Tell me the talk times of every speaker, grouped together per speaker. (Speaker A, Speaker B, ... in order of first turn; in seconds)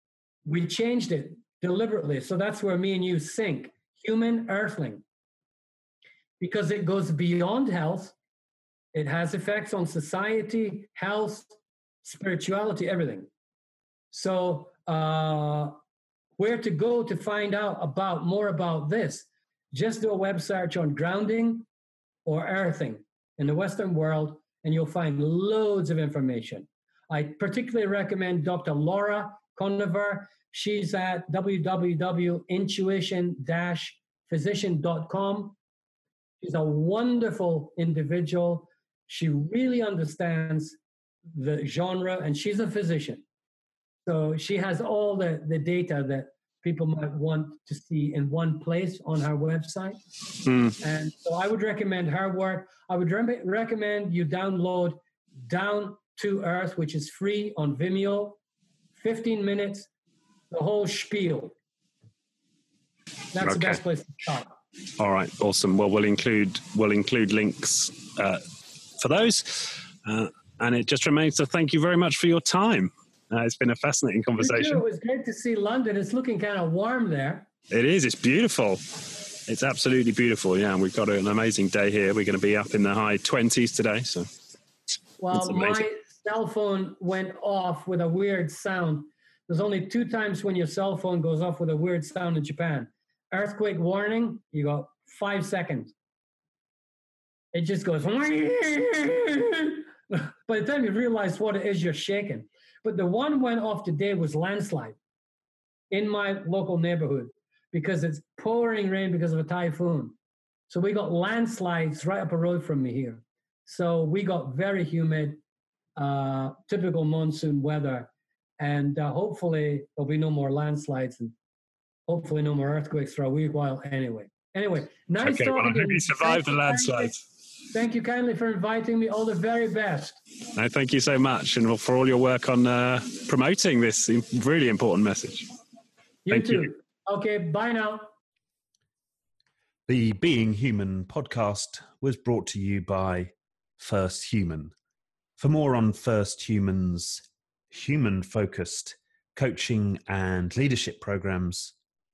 Speaker A: 0.4-5.0, 6.4-8.2, 8.9-13.3, 14.1-15.7, 16.4-21.7, 22.2-35.6, 36.4-40.8, 41.3-43.2, 44.0-50.0, 50.8-58.4, 58.9-59.9, 60.5-61.5, 63.3-64.5, 74.4-77.5, 85.2-95.9, 97.5-105.0, 105.9-110.2, 110.7-115.4, 116.0-121.3, 122.1-127.2, 127.7-130.2, 136.2-138.1
Speaker B: 50.4-50.8, 63.4-63.8, 65.0-68.4, 69.0-74.8, 77.7-84.3, 85.3-85.8, 125.2-127.2, 130.5-135.5, 136.3-136.7
Speaker C: 139.9-144.7, 145.4-151.7